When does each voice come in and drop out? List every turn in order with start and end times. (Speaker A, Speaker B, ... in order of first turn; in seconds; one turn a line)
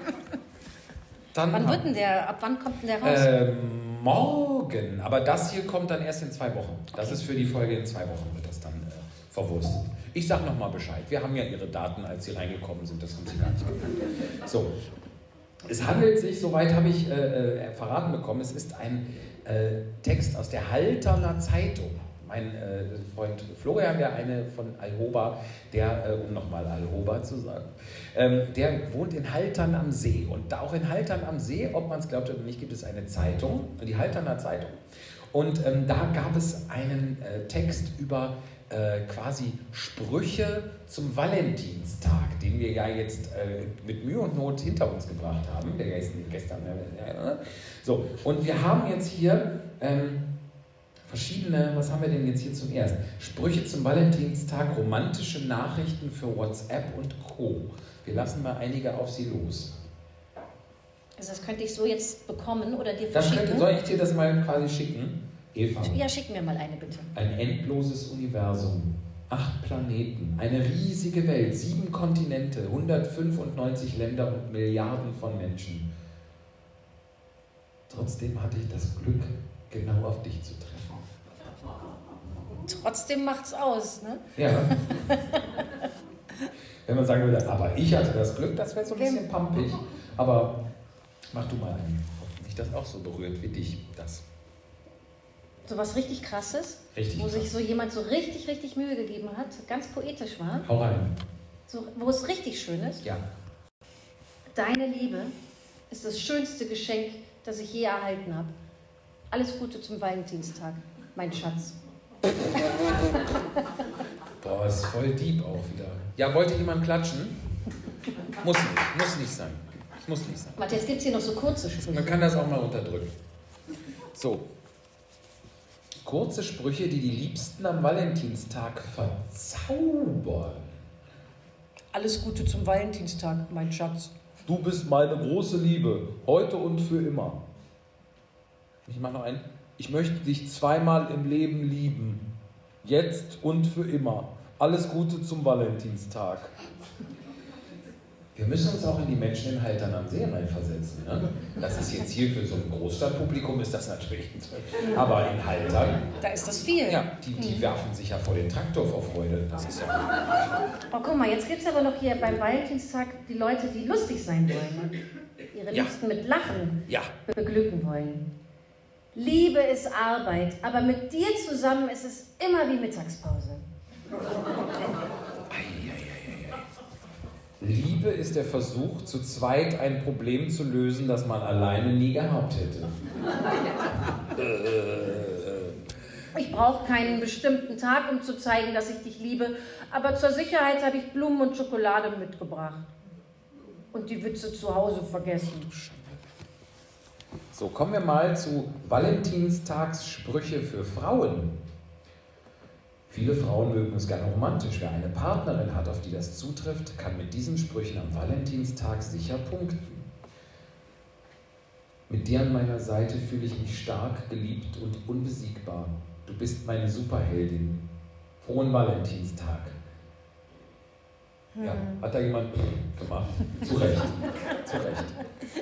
Speaker A: 1.3-1.9
Speaker B: 1.5-3.3
Speaker A: 3.0-14.8
Speaker B: 7.0-7.2
Speaker A: 15.7-34.8
Speaker A: 35.3-50.2
Speaker A: 51.1-59.8
Speaker B: 61.2-63.7
Speaker A: 63.1-66.1
Speaker B: 65.8-67.1
Speaker A: 67.1-75.9
Speaker A: 77.9-81.0
Speaker B: 82.7-85.4
Speaker A: 84.4-84.9
Speaker A: 86.9-90.6
Speaker B: 88.9-89.2
Speaker A: 91.3-94.3
Speaker B: 95.7-100.7
Speaker A: 96.9-97.5
Speaker A: 100.6-101.2
Speaker B: 101.7-103.0
Speaker B: 104.5-105.3
Speaker B: 105.9-108.5
Speaker B: 109.3-111.8
Speaker B: 112.5-113.4
Speaker A: 114.4-117.5
Speaker A: 118.4-120.6
Speaker B: 120.6-122.2
Speaker A: 121.9-123.1
Speaker A: 124.2-124.5
Speaker A: 126.0-130.7
Speaker B: 131.9-134.1
Speaker A: 134.5-137.4
Speaker A: 138.9-142.2
Speaker A: 142.8-146.5
Speaker A: 148.3-156.1
Speaker B: 156.2-157.7
Speaker A: 156.9-160.3
Speaker B: 160.9-165.0
Speaker B: 165.5-168.3
Speaker A: 166.9-167.1
Speaker B: 169.1-173.7
Speaker A: 175.5-176.7
Speaker A: 177.6-183.0
Speaker A: 184.3-185.8
Speaker B: 186.3-192.9
Speaker B: 193.9-196.1
Speaker A: 197.5-201.6
Speaker A: 203.1-209.9
Speaker A: 212.1-217.8
Speaker A: 218.4-219.8
Speaker B: 221.6-222.1
Speaker A: 221.6-225.2